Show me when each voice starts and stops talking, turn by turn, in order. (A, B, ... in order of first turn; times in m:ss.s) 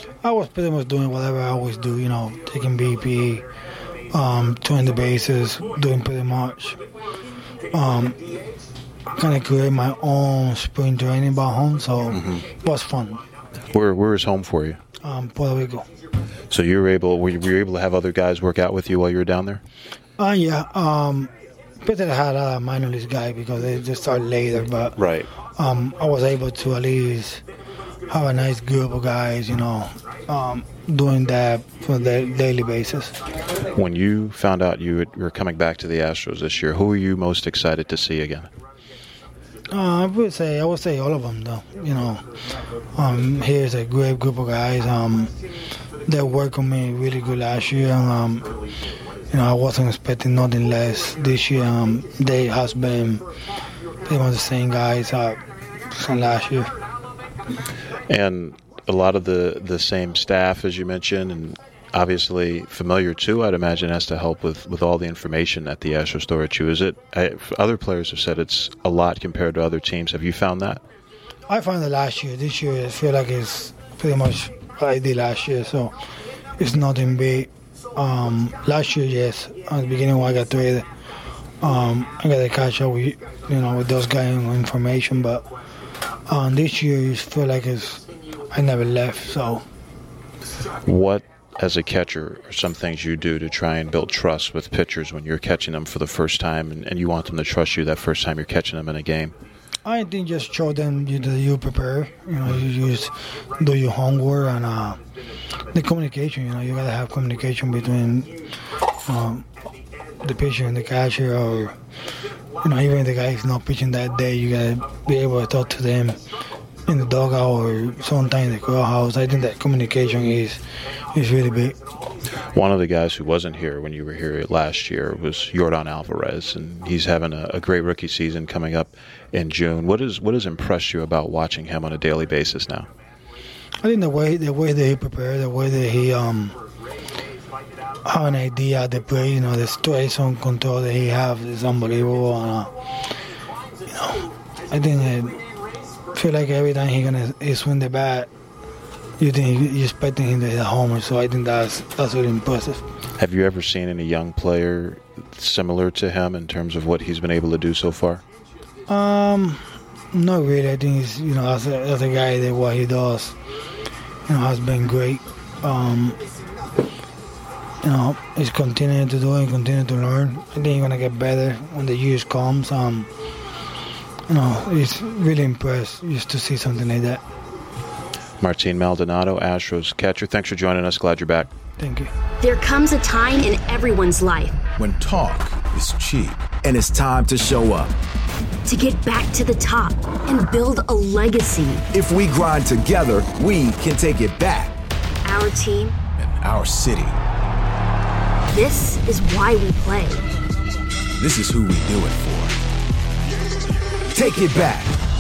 0:00.2-0:03.4 A
0:04.1-0:06.8 A
0:07.7-0:08.2 A
0:09.2-0:13.2 A
0:12.1-0:12.5 B
0:13.7-0:14.8 B
0:15.0-0:15.8 A
0:16.5-0:19.6 B
0:20.2-0:21.3 A
0:21.8-0:25.0 A
0:25.0-0:25.3 B
0:25.6-0:27.4 A
0:28.1-0:33.1 A
0:33.8-0:38.5 B
0:39.7-0:42.2 A
0:43.0-0:45.3 A
0:46.1-0:48.5 A
0:49.3-0:53.2 A
0:54.1-0:55.4 A
0:55.9-0:56.7 A
0:58.1-1:10.8 B
1:11.5-1:15.9 A
1:16.6-1:20.8 A
1:21.6-1:25.4 A
1:26.3-1:29.6 A
1:30.9-1:39.3 B
1:39.8-1:45.0 A
1:45.7-1:48.3 A
1:49.1-1:49.4 A
1:50.2-1:51.7 A
1:52.6-1:56.2 A
1:56.9-2:00.6 A
2:01.1-2:01.8 A
2:02.5-2:12.9 B
2:13.8-2:16.6 A
2:18.0-2:22.7 A
2:23.9-2:25.4 A
2:26.2-2:28.3 A
2:29.2-2:32.8 A
2:33.2-2:38.2 B
2:38.9-2:39.6 A
2:40.1-2:43.4 A
2:44.3-2:46.2 A
2:47.8-2:53.1 A
2:54.3-2:57.2 A
2:58.4-3:01.5 B
3:01.8-3:02.1 A
3:02.4-3:04.6 C
3:04.8-3:06.5 D
3:06.6-3:07.9 E
3:08.7-3:11.8 C
3:11.9-3:14.8 E
3:15.2-3:16.0 C
3:16.2-3:17.2 D
3:16.7-3:17.0 E
3:18.5-3:20.3 C
3:21.2-3:22.6 D
3:21.4-3:22.2 E
3:24.1-3:25.0 E